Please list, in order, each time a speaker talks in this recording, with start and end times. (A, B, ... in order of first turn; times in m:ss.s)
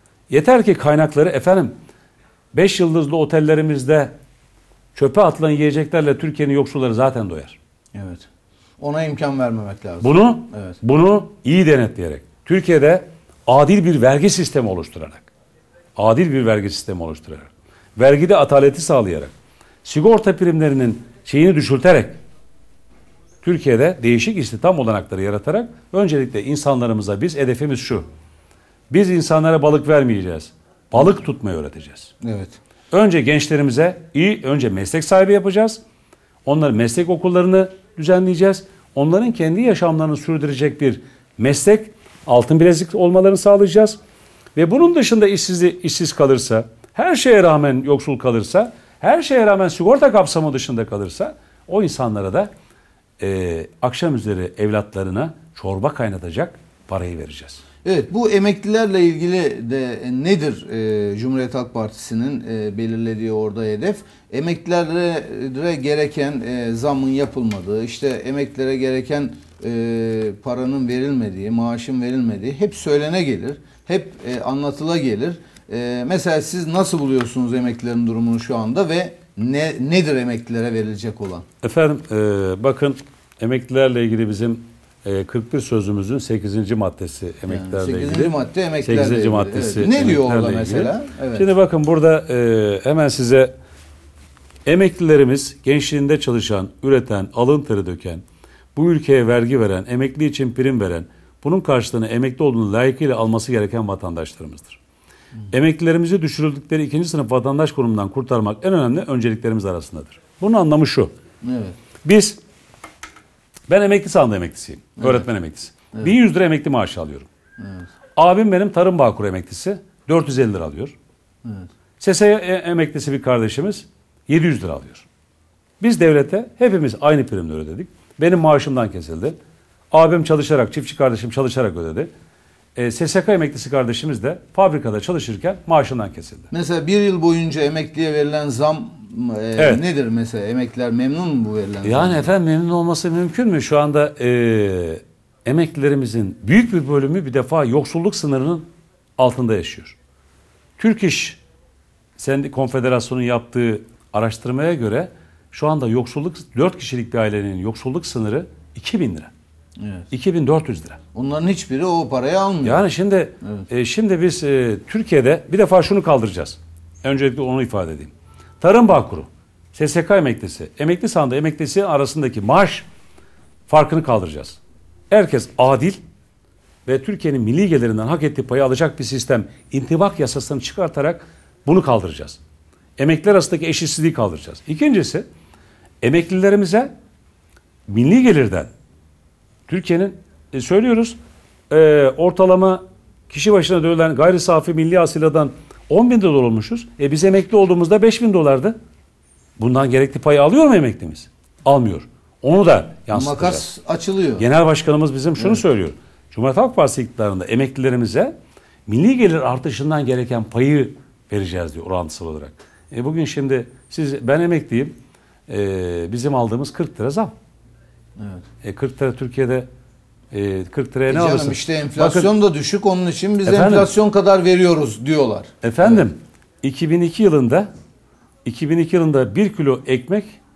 0:00.3-0:01.7 A
0:02.5-0:04.1 A
0:05.0-0:07.6 A
0:07.9-0:08.3 B
0:08.8-0:10.8 B
0:10.0-0:15.3 A
0:16.0-0:19.3 A
0:19.8-0:22.2 A
0:23.4-0:28.1 A
0:28.9-0:32.1 A
0:32.2-0:32.6 B
0:32.9-0:35.8 A
0:36.4-0:44.0 A
0:44.6-0:52.5 A
0:53.2-0:57.6 A
0:57.8-1:21.5 B
1:21.6-1:33.5 A
1:27.5-1:31.5 B
1:34.7-1:38.2 A
1:38.8-1:44.8 A
1:45.5-1:51.1 A
1:51.4-1:51.8 B
1:52.0-1:52.4 A
1:53.7-1:57.3 A
1:57.6-1:57.9 B
1:58.2-2:01.0 A
2:02.0-2:05.1 A
2:05.8-2:09.4 A
2:09.9-2:12.1 A
2:12.8-2:16.5 A
2:16.5-2:22.3 B
2:19.6-2:19.8 A
2:21.8-2:28.7 A
2:29.2-2:30.0 A
2:30.8-2:31.4 A
2:32.2-2:39.3 A
2:39.8-2:40.1 B
2:40.1-2:41.0 A
2:41.1-2:42.9 B
2:42.6-2:52.9 A
2:53.7-2:54.6 A
2:55.1-2:56.0 A
2:56.9-3:02.4 A
3:03.0-3:05.3 A
3:06.0-3:06.9 A
3:07.9-3:08.7 A
3:09.7-3:11.2 A
3:11.7-3:18.8 A
3:19.6-3:23.7 A
3:23.1-3:24.4 B
3:24.4-3:28.3 A
3:28.9-3:34.9 A
3:35.5-3:37.3 A
3:38.2-3:38.4 B
3:38.6-3:39.7 A
3:40.3-3:42.3 A
3:41.1-3:46.1 B
3:43.5-3:43.9 A
3:45.6-3:47.7 A
3:48.4-3:50.4 A